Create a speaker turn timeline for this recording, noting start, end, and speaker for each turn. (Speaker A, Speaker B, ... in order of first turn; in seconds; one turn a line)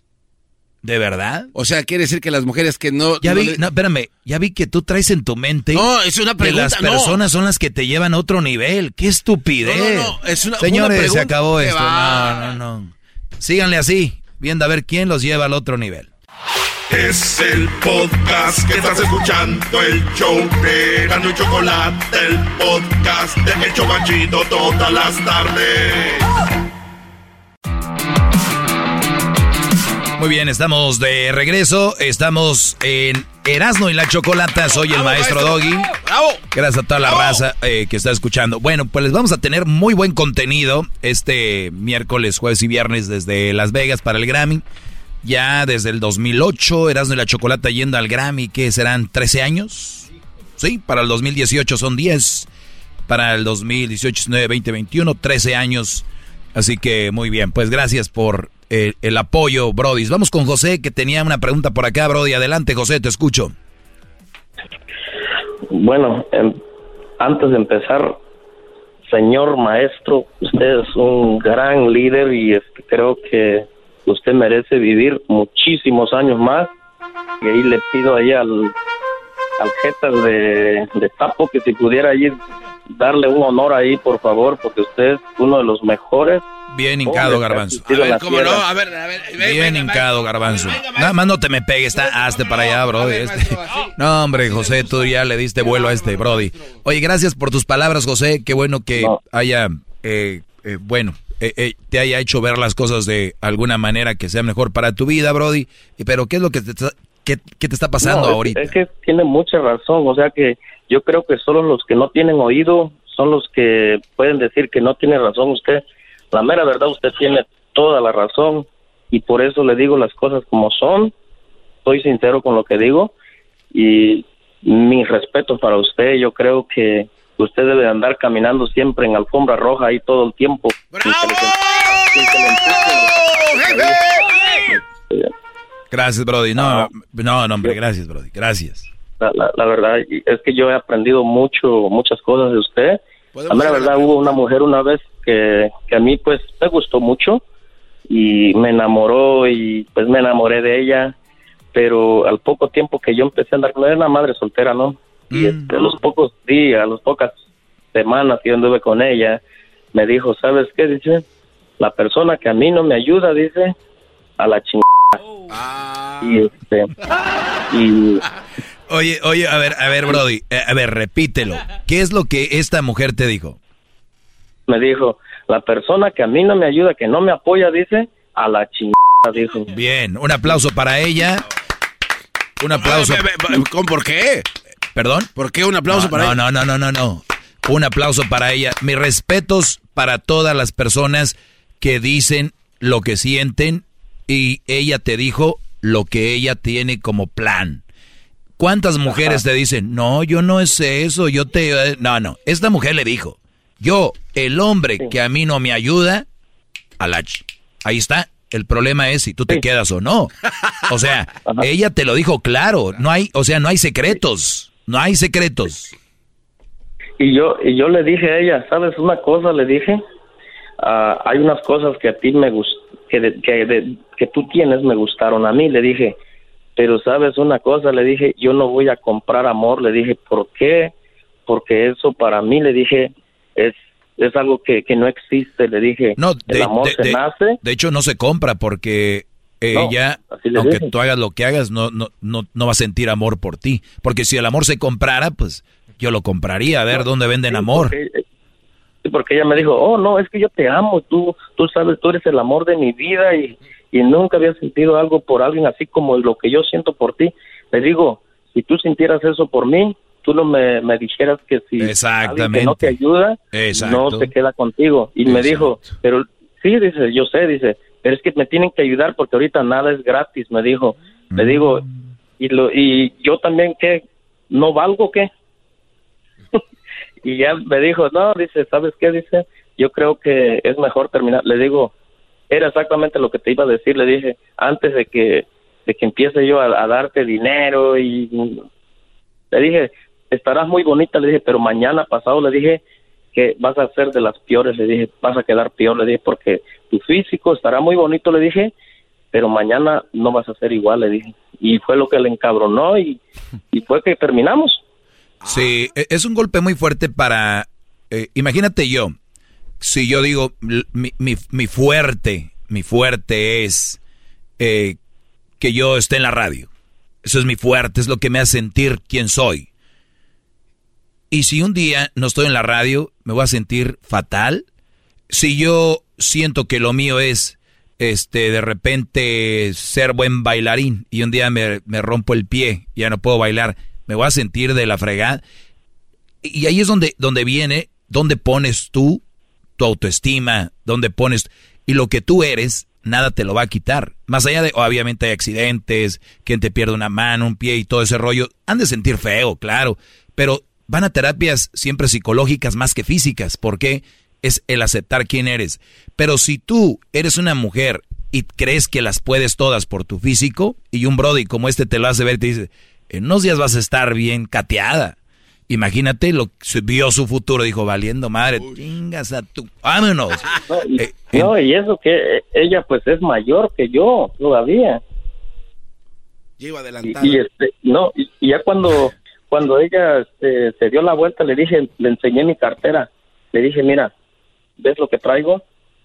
Speaker A: 0.8-1.5
Speaker B: 1.5-3.6
Speaker A: 3.2-5.8
Speaker B: 5.7-7.2
Speaker A: 6.4-16.1
Speaker B: 9.6-12.5
Speaker C: 16.9-26.3
Speaker A: 30.2-35.9
Speaker B: 34.6-36.4
Speaker A: 36.5-44.6
Speaker B: 37.0-37.4
Speaker A: 45.2-50.0
Speaker A: 50.6-52.5
Speaker A: 53.1-63.5
Speaker D: 65.7-66.5
Speaker D: 67.2-68.2
Speaker D: 69.1-76.7
Speaker D: 77.4-78.7
Speaker D: 79.6-82.4
Speaker D: 82.9-86.4
Speaker A: 86.7-88.2
Speaker D: 87.0-88.6
Speaker B: 87.8-91.3
Speaker A: 89.4-108.8
Speaker B: 91.9-95.1
Speaker B: 95.7-96.6
Speaker D: 108.0-121.1
Speaker D: 121.8-123.1
Speaker D: 123.7-134.0
Speaker B: 130.9-134.3
Speaker A: 135.9-138.9
Speaker D: 139.2-147.4
Speaker B: 143.3-144.4
Speaker D: 148.1-151.1
Speaker D: 151.7-157.3
Speaker A: 155.3-155.9
Speaker D: 157.9-159.4
Speaker D: 159.9-161.2
Speaker D: 161.8-163.7
Speaker D: 164.4-165.2
Speaker B: 165.5-166.5
Speaker D: 166.2-166.9
Speaker D: 167.7-168.2
Speaker A: 168.9-173.6
Speaker D: 174.7-179.7
Speaker A: 179.7-181.4
Speaker A: 182.6-183.2
Speaker B: 182.7-184.4
Speaker A: 184.9-185.3
Speaker B: 185.3-186.3
Speaker A: 185.9-197.8
Speaker A: 198.6-206.2
Speaker A: 207.0-210.3
Speaker A: 210.9-215.9
Speaker D: 217.2-220.0
Speaker D: 220.8-226.2
Speaker D: 226.8-230.9
Speaker D: 231.5-237.6
Speaker A: 236.2-247.9
Speaker D: 239.7-240.9
Speaker D: 246.9-248.2
Speaker D: 249.0-271.8
Speaker A: 261.8-263.0
Speaker A: 263.5-264.3
Speaker A: 265.2-265.8
Speaker A: 271.3-272.0
Speaker D: 272.4-275.3
Speaker D: 277.2-281.9
Speaker D: 282.5-288.6
Speaker D: 289.5-292.8
Speaker D: 293.3-298.7
Speaker D: 299.3-303.2
Speaker D: 303.7-304.8
Speaker B: 305.4-305.7
Speaker A: 305.5-309.1
Speaker A: 309.8-314.0
Speaker A: 314.6-315.0
Speaker A: 315.6-316.7
Speaker A: 317.2-319.7
Speaker A: 321.3-324.6
Speaker A: 325.3-335.4
Speaker A: 336.4-339.2
Speaker A: 339.8-365.1
Speaker A: 365.7-370.4
Speaker D: 370.7-375.0
Speaker A: 370.9-371.5
Speaker B: 376.6-377.4
Speaker D: 377.2-384.1
Speaker D: 384.8-385.6